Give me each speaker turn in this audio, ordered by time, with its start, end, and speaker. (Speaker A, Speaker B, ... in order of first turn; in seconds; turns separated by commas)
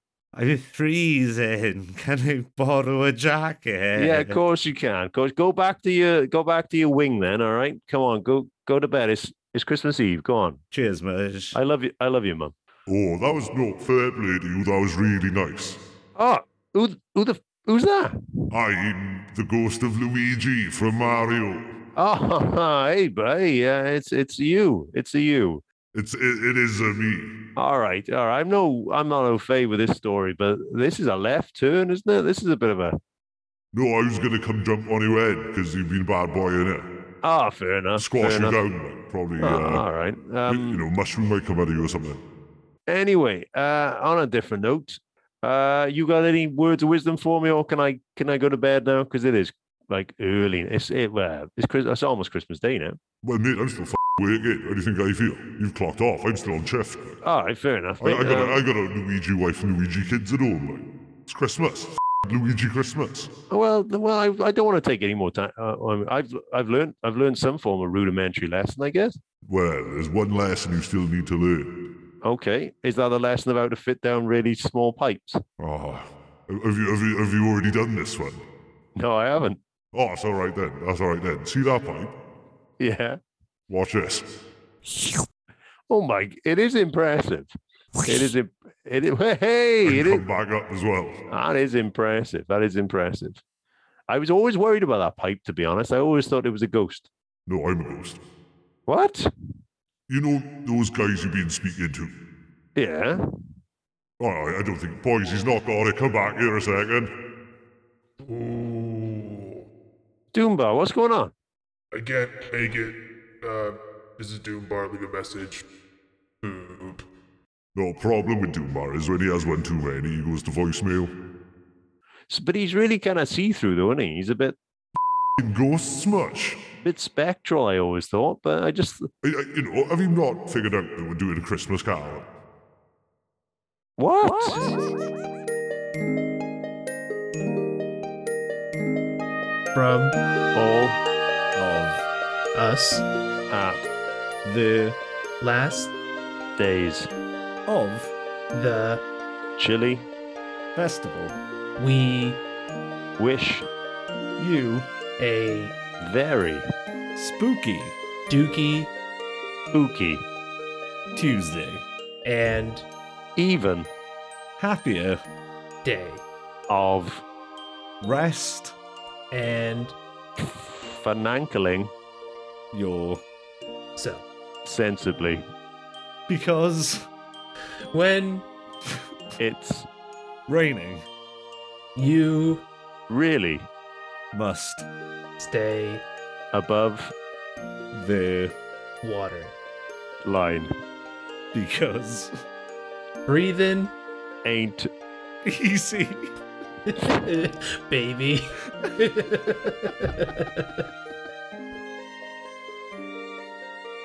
Speaker A: 0.3-4.4, Speaker B: 3.9-10.6, Speaker A: 10.7-11.6, Speaker B: 11.5-12.5, Speaker C: 12.9-15.8, Speaker B: 16.2-18.1, Speaker C: 18.5-21.7, Speaker B: 21.9-25.6, Speaker C: 25.9-27.3, Speaker B: 27.6-33.0, Speaker C: 33.7-36.9, Speaker B: 37.2-38.6, Speaker C: 38.0-39.8, Speaker B: 39.4-40.8, Speaker C: 40.5-42.2, Speaker B: 42.9-53.0, Speaker C: 53.2-57.2, Speaker B: 57.2-58.6, Speaker C: 58.0-63.3, Speaker B: 63.5-69.1, Speaker C: 69.5-71.8, Speaker B: 72.2-75.4, Speaker C: 75.6-78.4, Speaker B: 79.0-79.6, Speaker C: 79.9-82.1, Speaker B: 82.8-83.2, Speaker C: 83.7-84.3, Speaker B: 85.9-87.5, Speaker B: 88.0-90.2, Speaker C: 89.8-91.2, Speaker B: 91.3-93.4, Speaker B: 94.1-97.1, Speaker C: 97.5-98.2, Speaker B: 98.9-99.3, Speaker C: 100.1-102.1, Speaker B: 102.8-103.2, Speaker C: 104.2-107.1, Speaker D: 108.2-109.6, Speaker B: 110.3-111.3, Speaker D: 111.9-115.6, Speaker D: 116.4-117.0, Speaker C: 117.7-121.1, Speaker B: 122.3-124.5, Speaker C: 125.4-126.6, Speaker B: 126.8-129.1, Speaker C: 129.2-132.2, Speaker B: 134.0-134.6, Speaker E: 139.7-140.2, Speaker B: 140.5-141.0, Speaker A: 141.5-142.0, Speaker E: 142.5-143.0, Speaker B: 143.5-143.8, Speaker A: 144.4-145.0, Speaker E: 145.4-145.9, Speaker B: 146.6-147.1, Speaker A: 147.7-148.1, Speaker E: 148.5-149.0, Speaker B: 149.6-150.1, Speaker A: 150.7-151.3, Speaker E: 151.8-152.4, Speaker B: 153.2-153.7, Speaker A: 154.4-154.9, Speaker E: 155.2-155.7, Speaker B: 156.0-156.6, Speaker A: 157.1-157.9, Speaker E: 158.3-158.9, Speaker B: 159.7-160.2, Speaker A: 161.1-161.8, Speaker E: 162.2-162.8, Speaker B: 163.3-163.9, Speaker A: 164.6-165.2, Speaker E: 165.8-166.2, Speaker B: 166.7-167.2, Speaker A: 168.0-168.8, Speaker E: 169.3-169.9, Speaker B: 170.4-171.9, Speaker A: 172.7-173.2, Speaker E: 173.9-174.2, Speaker B: 174.6-175.4, Speaker A: 176.3-177.1, Speaker E: 177.9-178.4, Speaker B: 179.4-179.8, Speaker A: 180.5-181.1, Speaker E: 181.9-182.7, Speaker B: 183.1-183.7, Speaker A: 184.3-184.8, Speaker E: 185.4-186.0, Speaker B: 186.5-187.1, Speaker A: 187.9-188.5, Speaker E: 189.0-189.5, Speaker B: 190.2-190.7, Speaker A: 191.5-192.3, Speaker E: 193.2-193.9, Speaker B: 194.4-194.9, Speaker A: 195.4-196.3, Speaker E: 196.9-200.8